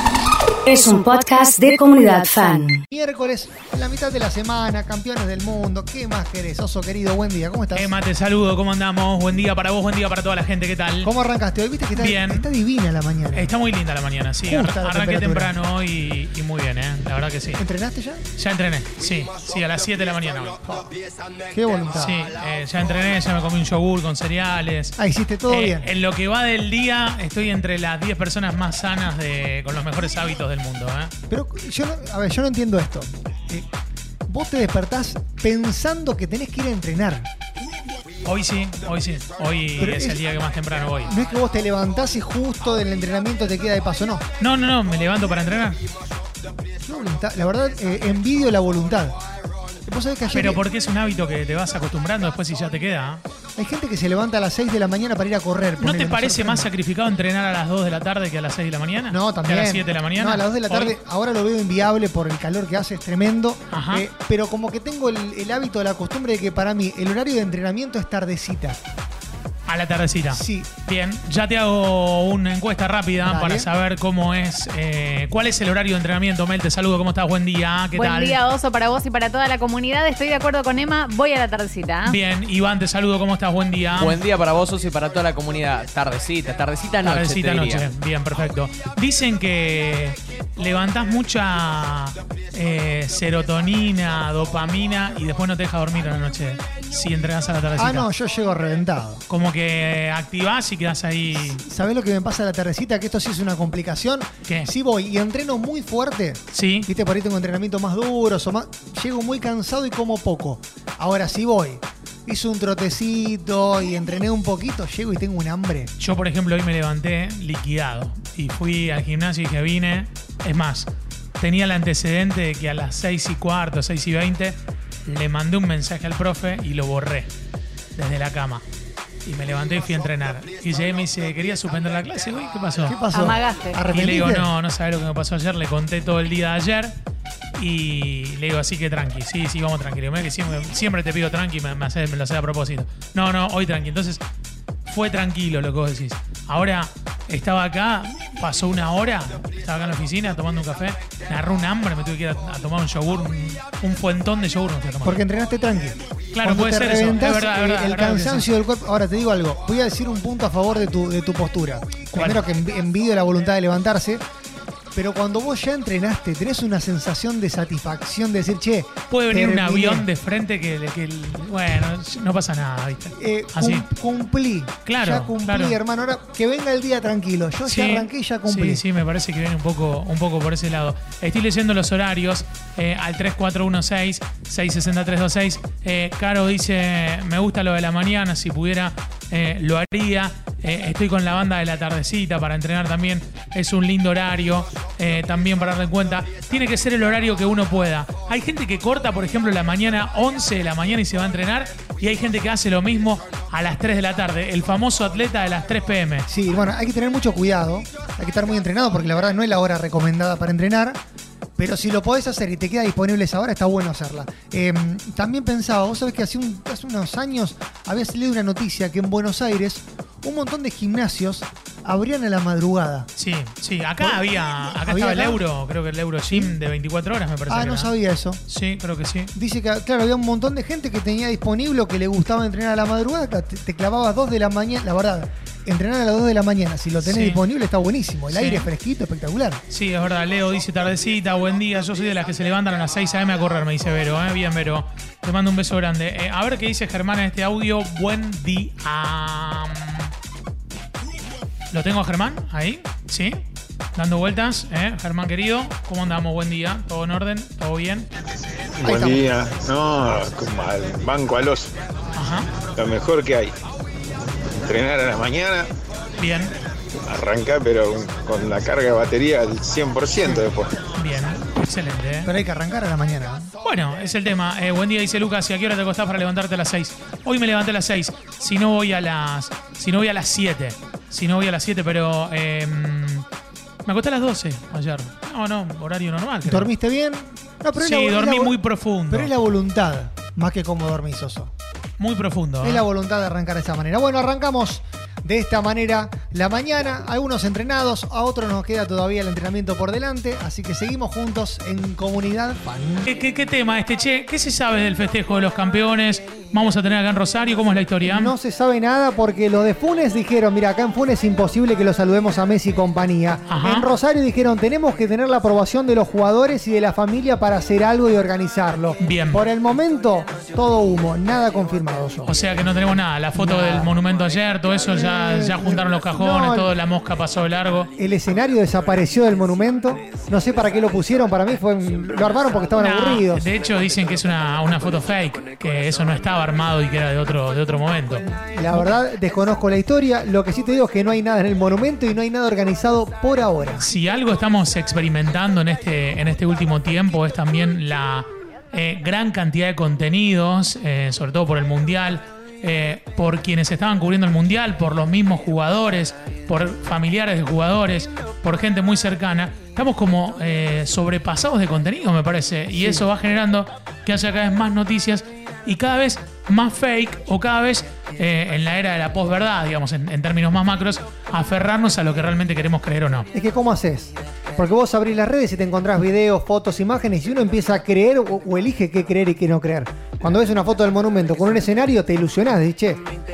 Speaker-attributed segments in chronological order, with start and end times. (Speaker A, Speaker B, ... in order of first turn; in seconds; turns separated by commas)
Speaker A: 0.7-2.8, Speaker B: 2.9-7.9, Speaker C: 7.7-11.1, Speaker B: 11.0-13.5, Speaker C: 11.9-12.5, Speaker C: 13.3-17.6, Speaker B: 14.4-15.5, Speaker B: 17.6-18.2, Speaker C: 18.4-20.6, Speaker B: 21.5-22.2, Speaker C: 21.9-24.9, Speaker B: 25.0-25.9, Speaker C: 25.5-31.1, Speaker B: 31.3-33.7, Speaker B: 34.3-37.3, Speaker C: 38.2-41.1, Speaker B: 39.8-40.2, Speaker B: 41.1-44.2, Speaker C: 44.4-45.8, Speaker B: 46.8-49.2, Speaker B: 49.8-50.6, Speaker C: 50.3-53.2, Speaker B: 53.6-56.6, Speaker C: 55.8-61.0, Speaker B: 59.1-68.8, Speaker C: 63.7-64.1, Speaker C: 69.7-78.4, Speaker B: 70.3-70.7, Speaker B: 73.2-73.7, Speaker D: 77.9-82.2, Speaker C: 82.0-84.2, Speaker E: 84.0-87.8, Speaker C: 87.0-98.1, Speaker B: 97.8-99.2, Speaker C: 99.3-101.6, Speaker B: 101.3-115.9, Speaker C: 106.5-106.9, Speaker C: 116.0-127.3, Speaker C: 128.0-128.6, Speaker C: 129.2-133.0, Speaker B: 132.9-134.5, Speaker D: 133.1-133.8, Speaker C: 133.9-136.9, Speaker C: 137.6-144.2, Speaker C: 144.8-155.2, Speaker B: 155.0-164.2, Speaker C: 156.3-158.5, Speaker C: 162.1-162.4, Speaker B: 164.9-170.1, Speaker C: 169.1-173.8, Speaker B: 173.2-178.8, Speaker C: 174.8-175.8, Speaker C: 177.7-206.3, Speaker B: 206.3-211.0, Speaker B: 211.6-223.1, Speaker C: 223.2-227.9, Speaker B: 224.0-225.4, Speaker B: 226.3-226.6, Speaker B: 227.5-228.4, Speaker C: 228.5-229.3, Speaker B: 229.3-239.6, Speaker C: 237.0-237.4, Speaker C: 238.3-238.7, Speaker C: 239.7-250.1, Speaker C: 251.7-253.4, Speaker C: 253.9-258.1, Speaker F: 258.8-261.7, Speaker B: 258.8-259.4, Speaker C: 262.1-262.5, Speaker F: 262.8-263.5, Speaker F: 264.6-265.7, Speaker C: 266.2-266.5, Speaker F: 267.1-270.8, Speaker C: 270.9-272.3, Speaker B: 272.2-273.5, Speaker C: 273.6-283.2, Speaker C: 283.9-286.7, Speaker B: 286.4-288.6, Speaker C: 287.8-289.3, Speaker B: 289.1-291.5, Speaker C: 292.0-292.9, Speaker B: 292.6-303.1, Speaker C: 303.0-308.3, Speaker B: 308.0-322.3, Speaker C: 313.5-313.9, Speaker C: 319.0-319.4, Speaker C: 322.2-327.9, Speaker B: 323.3-323.9, Speaker B: 324.9-326.7, Speaker B: 328.0-333.5, Speaker C: 332.8-338.9, Speaker B: 338.3-343.9, Speaker C: 343.8-373.3, Speaker B: 362.7-363.0, Speaker B: 373.3-383.0